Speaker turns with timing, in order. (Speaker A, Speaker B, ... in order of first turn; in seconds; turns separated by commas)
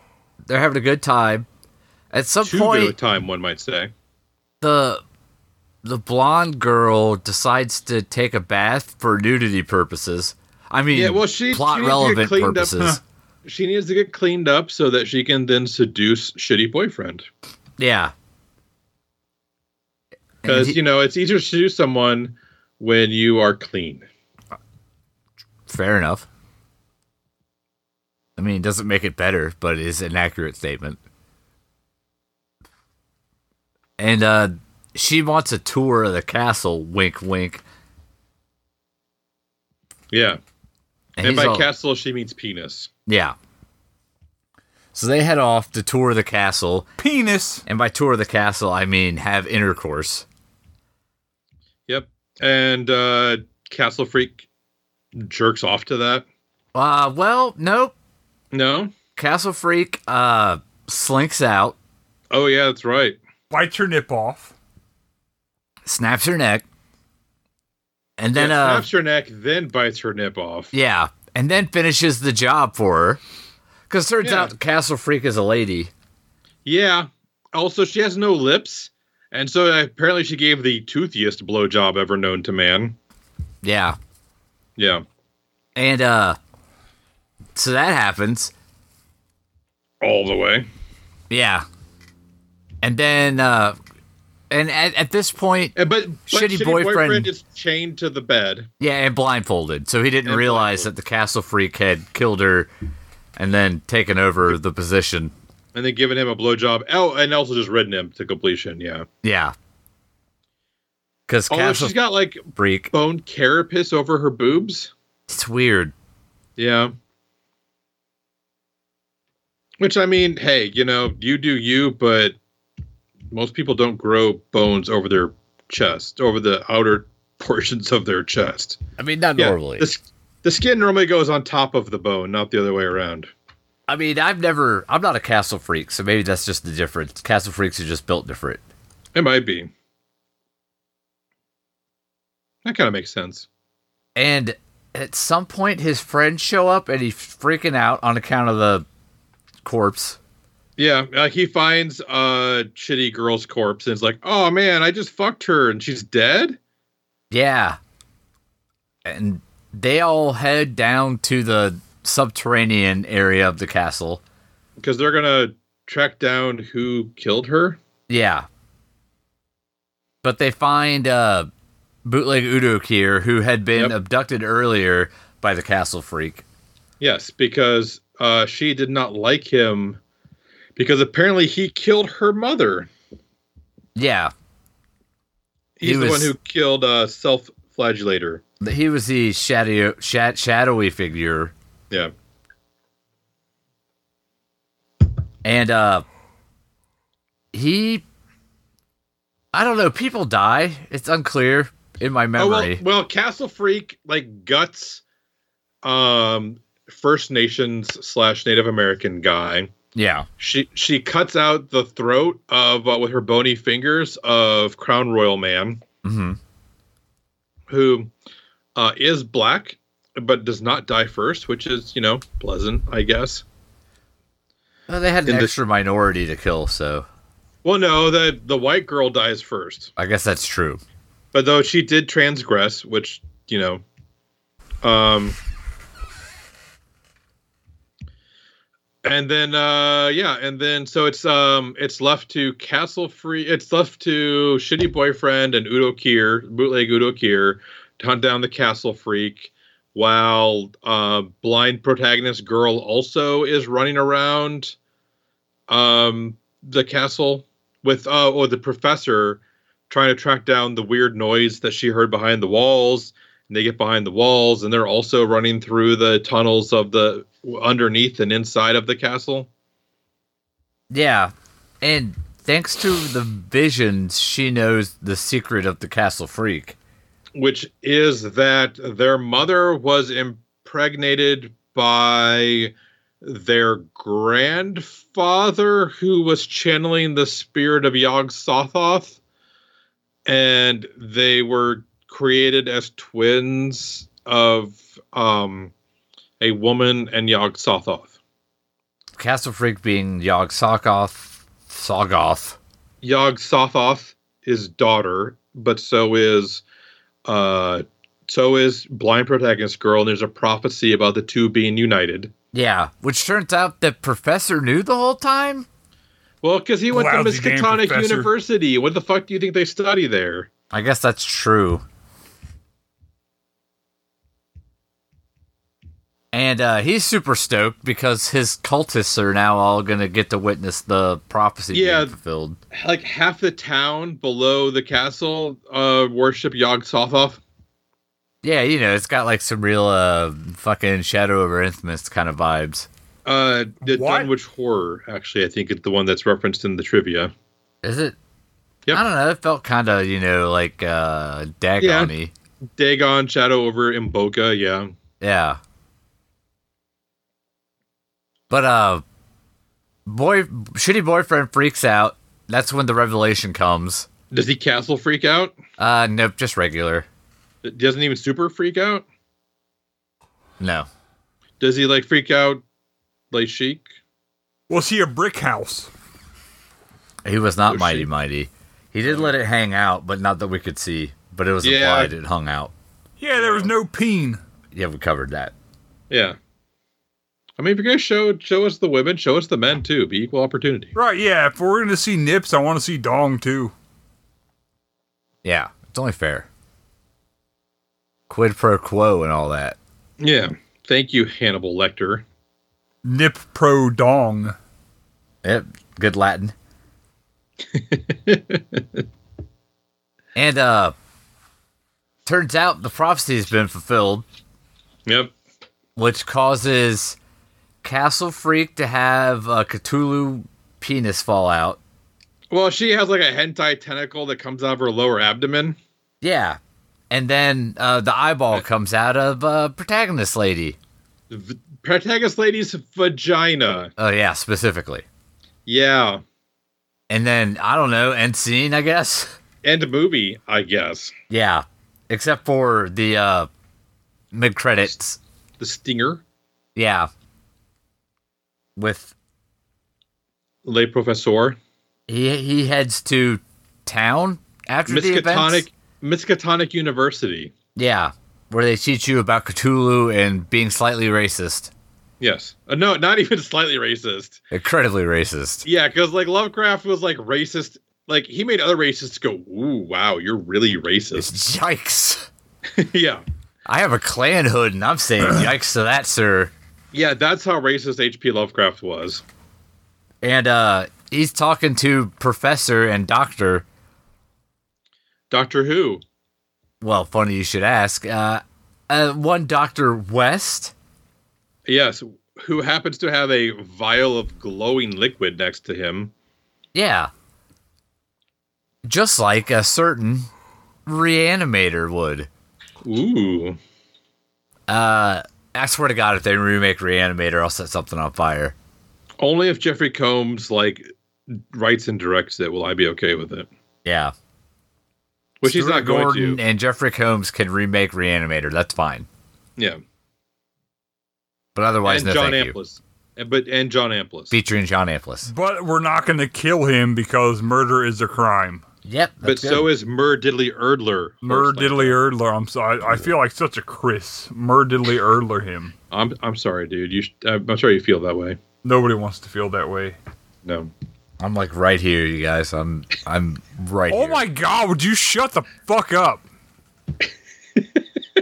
Speaker A: 0.5-1.5, Speaker A: 2.1-2.9, Speaker B: 2.4-3.9, Speaker A: 4.6-5.0, Speaker A: 5.8-13.0, Speaker B: 10.9-17.3, Speaker A: 17.8-18.1, Speaker A: 20.4-20.8, Speaker B: 20.4-24.1, Speaker A: 25.7-26.3, Speaker A: 28.4-31.0, Speaker A: 34.0-37.6, Speaker B: 40.1-40.4, Speaker A: 41.2-41.7, Speaker B: 41.2-42.9, Speaker A: 43.1-43.3, Speaker A: 44.9-46.9, Speaker C: 47.0-47.6, Speaker A: 47.6-50.2, Speaker B: 51.9-54.4, Speaker B: 55.1-56.2, Speaker A: 56.7-57.9, Speaker B: 58.5-58.9, Speaker A: 59.1-61.7, Speaker B: 62.3-63.2, Speaker C: 63.5-64.5, Speaker A: 65.8-66.6, Speaker A: 68.2-68.9, Speaker B: 68.3-70.7, Speaker A: 70.7-73.2, Speaker A: 73.9-75.9, Speaker B: 74.2-74.5, Speaker B: 76.6-83.0, Speaker A: 83.6-84.0, Speaker B: 84.8-85.0, Speaker A: 85.8-86.4, Speaker A: 87.5-88.5, Speaker B: 90.0-90.7, Speaker A: 91.3-91.7, Speaker A: 92.8-93.8, Speaker A: 94.5-95.7, Speaker B: 95.8-98.7, Speaker A: 96.3-97.3, Speaker A: 98.8-102.7, Speaker B: 100.2-100.9, Speaker A: 103.3-105.3, Speaker B: 105.7-109.0, Speaker A: 109.2-109.5, Speaker A: 111.3-112.0, Speaker B: 111.5-114.9, Speaker A: 112.5-112.9, Speaker A: 115.3-115.9, Speaker B: 116.6-116.9, Speaker B: 119.8-122.4, Speaker B: 123.3-128.8, Speaker A: 129.0-129.9, Speaker B: 129.4-133.3, Speaker A: 133.9-138.6, Speaker B: 139.1-139.7, Speaker B: 142.6-143.5, Speaker A: 144.1-148.8, Speaker A: 149.6-150.2, Speaker B: 150.8-156.6, Speaker A: 157.3-157.8, Speaker A: 159.0-164.2, Speaker B: 164.8-167.8, Speaker A: 168.1-168.5, Speaker A: 170.2-171.5, Speaker A: 172.0-176.4, Speaker B: 177.0-180.0, Speaker B: 180.8-182.9, Speaker A: 183.9-184.3, Speaker B: 185.8-188.4, Speaker A: 185.8-186.3, Speaker A: 188.6-191.5, Speaker A: 195.4-196.0, Speaker A: 197.5-198.0, Speaker A: 199.5-202.8, Speaker B: 202.4-205.0, Speaker B: 205.8-209.7, Speaker A: 209.9-210.3, Speaker B: 210.4-215.8, Speaker A: 216.0-216.4, Speaker B: 217.7-218.1, Speaker B: 218.8-223.4, Speaker A: 224.9-227.1, Speaker B: 225.2-225.5, Speaker B: 227.6-229.9, Speaker A: 230.0-230.8, Speaker B: 231.3-233.8, Speaker B: 234.8-235.4, Speaker B: 239.0-254.8, Speaker B: 255.7-269.5, Speaker A: 270.9-276.8, Speaker B: 277.3-289.2, Speaker B: 290.2-295.7, Speaker B: 296.4-298.1, Speaker A: 299.2-302.6, Speaker B: 303.0-306.6, Speaker B: 307.2-312.3, Speaker A: 312.5-315.6, Speaker B: 316.4-320.5, Speaker C: 316.9-318.3, Speaker A: 320.7-321.8, Speaker A: 326.3-332.6, Speaker B: 331.7-332.1, Speaker B: 332.7-337.4, Speaker A: 338.4-342.9, Speaker B: 343.2-347.3, Speaker C: 343.8-344.3, Speaker A: 347.8-348.1, Speaker A: 348.9-352.3, Speaker B: 351.8-352.1, Speaker B: 352.7-354.9, Speaker A: 355.2-355.6, Speaker A: 358.5-359.0, Speaker A: 360.1-364.1, Speaker B: 364.3-365.6, Speaker A: 365.8-367.1, Speaker B: 367.6-369.0, Speaker A: 370.6-370.9, Speaker B: 371.6-372.6, Speaker B: 373.3-373.9, Speaker C: 374.7-375.9, Speaker A: 377.2-382.7, Speaker B: 377.7-378.1, Speaker B: 379.1-379.3, Speaker B: 381.6-382.1, Speaker C: 383.2-384.4, Speaker B: 383.4-383.7, Speaker A: 384.7-385.5, Speaker B: 386.1-386.4, Speaker B: 387.6-390.9, Speaker C: 390.9-393.7, Speaker A: 395.4-396.5, Speaker A: 398.3-399.8, Speaker B: 400.2-402.2, Speaker C: 403.0-404.5, Speaker A: 405.4-406.5, Speaker B: 407.7-409.0, Speaker A: 410.3-410.9, Speaker A: 412.2-414.2, Speaker B: 415.1-415.3, Speaker A: 415.9-417.2, Speaker A: 417.8-421.8, Speaker B: 422.5-425.8, Speaker A: 426.2-426.6, Speaker A: 427.1-430.8, Speaker B: 431.3-433.9, Speaker A: 434.0-435.0, Speaker B: 435.6-436.2, Speaker A: 437.1-439.3, Speaker B: 439.6-441.1, Speaker A: 441.3-443.5, Speaker A: 444.3-445.2, Speaker B: 445.6-446.2, Speaker A: 446.8-447.1, Speaker A: 448.8-449.1, Speaker B: 450.6-451.6, Speaker A: 452.1-455.6, Speaker B: 454.9-457.5, Speaker A: 457.8-461.7, Speaker B: 462.2-464.4, Speaker A: 464.5-465.6, Speaker B: 465.6-471.3, Speaker A: 471.2-472.3, Speaker B: 472.7-473.2, Speaker A: 473.7-476.5, Speaker B: 476.9-479.2, Speaker A: 480.2-483.6, Speaker B: 485.3-486.0, Speaker A: 486.8-490.7, Speaker B: 491.6-496.1, Speaker A: 496.7-497.1, Speaker A: 498.9-500.3, Speaker A: 500.9-502.3, Speaker B: 502.8-503.6, Speaker A: 504.7-508.5, Speaker B: 509.2-513.5, Speaker A: 513.8-514.1, Speaker B: 515.4-516.4, Speaker A: 515.4-519.1, Speaker A: 521.5-522.5, Speaker B: 521.8-524.4, Speaker A: 524.3-525.3, Speaker C: 525.3-528.6, Speaker A: 528.8-529.7, Speaker B: 529.2-532.0, Speaker C: 531.2-535.7, Speaker B: 535.9-538.4, Speaker C: 538.6-540.0, Speaker B: 540.4-540.7, Speaker A: 541.2-544.2, Speaker C: 543.9-546.2